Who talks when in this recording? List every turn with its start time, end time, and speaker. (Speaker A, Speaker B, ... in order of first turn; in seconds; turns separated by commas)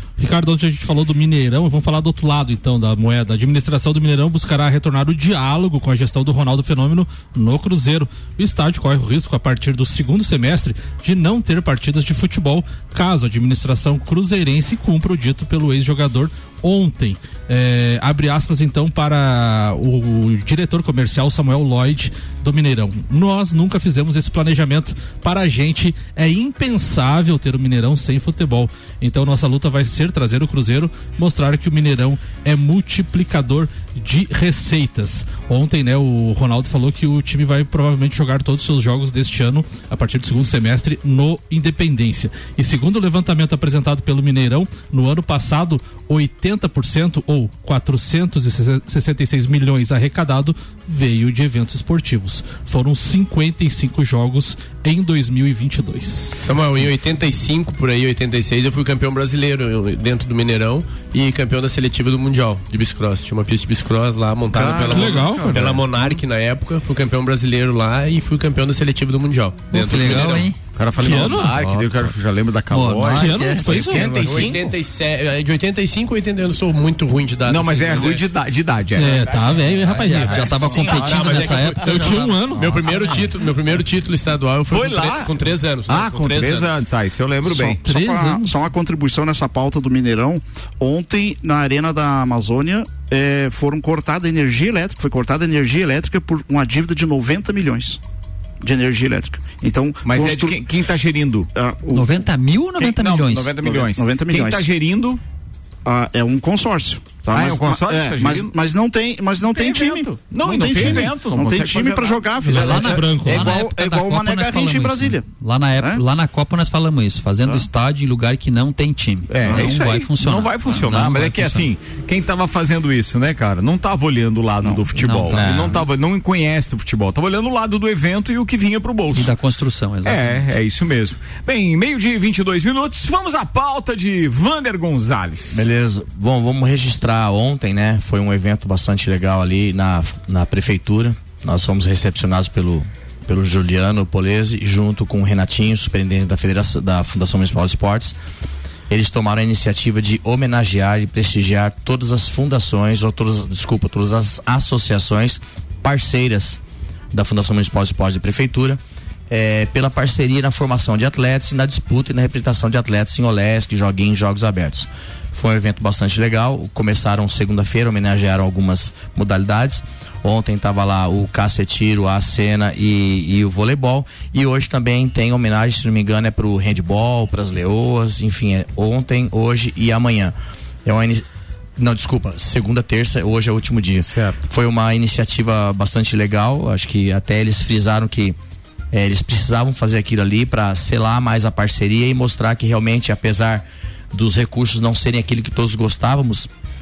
Speaker A: 0.2-56.9, Speaker B: 56.4-70.5, Speaker A: 64.7-65.8, Speaker C: 64.9-66.2, Speaker D: 69.7-70.5, Speaker C: 70.8-74.6, Speaker A: 71.0-71.6, Speaker D: 71.4-71.9, Speaker D: 72.7-73.6, Speaker E: 73.1-74.6, Speaker A: 73.2-74.2, Speaker B: 73.9-78.2, Speaker C: 77.5-79.8, Speaker A: 79.0-80.7, Speaker E: 79.7-81.7, Speaker D: 80.0-82.3, Speaker B: 80.4-86.7, Speaker A: 81.8-83.1, Speaker E: 82.5-83.3, Speaker C: 84.7-85.3, Speaker C: 85.9-87.8, Speaker F: 87.4-98.0, Speaker A: 87.8-88.5, Speaker F: 98.6-100.6, Speaker C: 100.0-101.5, Speaker F: 101.5-102.2, Speaker D: 101.9-103.5, Speaker C: 102.8-105.2, Speaker F: 103.6-104.6, Speaker F: 105.8-115.2, Speaker C: 107.3-108.5, Speaker C: 109.4-112.2, Speaker A: 112.4-113.6, Speaker D: 112.5-121.7, Speaker C: 119.3-129.3, Speaker F: 119.4-119.9, Speaker D: 125.0-125.3, Speaker E: 125.3-125.9, Speaker D: 129.1-130.4, Speaker C: 130.0-135.7, Speaker E: 135.5-148.2, Speaker E: 148.9-156.6, Speaker E: 157.1-181.2, Speaker E: 181.8-188.4, Speaker C: 184.0-184.4, Speaker E: 188.9-196.5